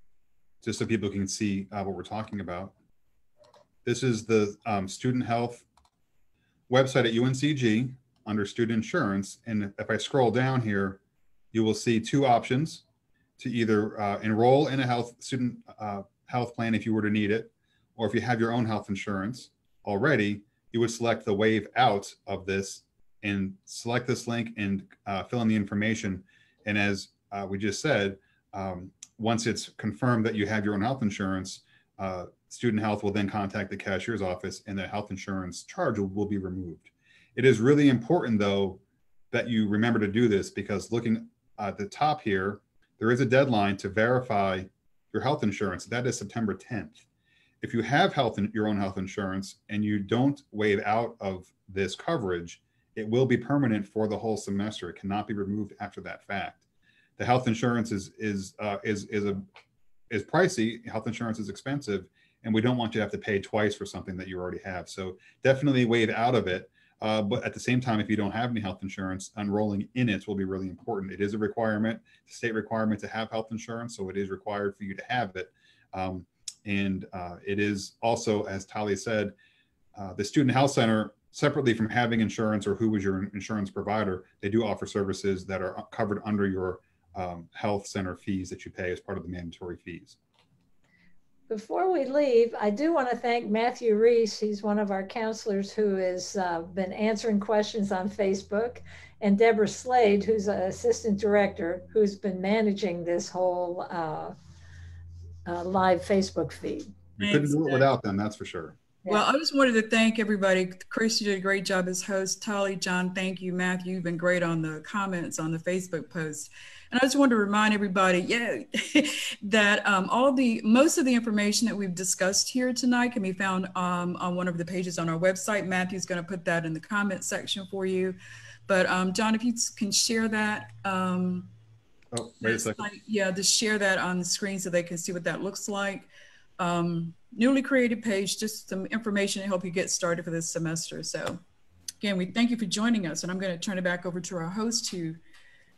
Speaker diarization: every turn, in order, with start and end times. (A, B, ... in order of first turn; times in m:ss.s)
0:00.6-0:02.7 A
0:03.8-0:05.7 A
0:06.7-0:11.0 A
0:11.5-0:12.8 A
0:13.4-0:38.8 A
0:39.3-0:47.0 A
0:47.6-0:56.6 A
0:57.2-0:59.4 A
1:00.1-1:19.3 A
1:20.0-1:30.2 A
1:31.5-1:44.3 B
1:45.5-1:46.9 B
1:47.2-1:48.8 A
1:47.2-1:47.9 C
1:49.1-2:11.5 C
2:12.1-2:12.9 A
2:12.4-2:21.4 C
2:22.0-2:25.2 C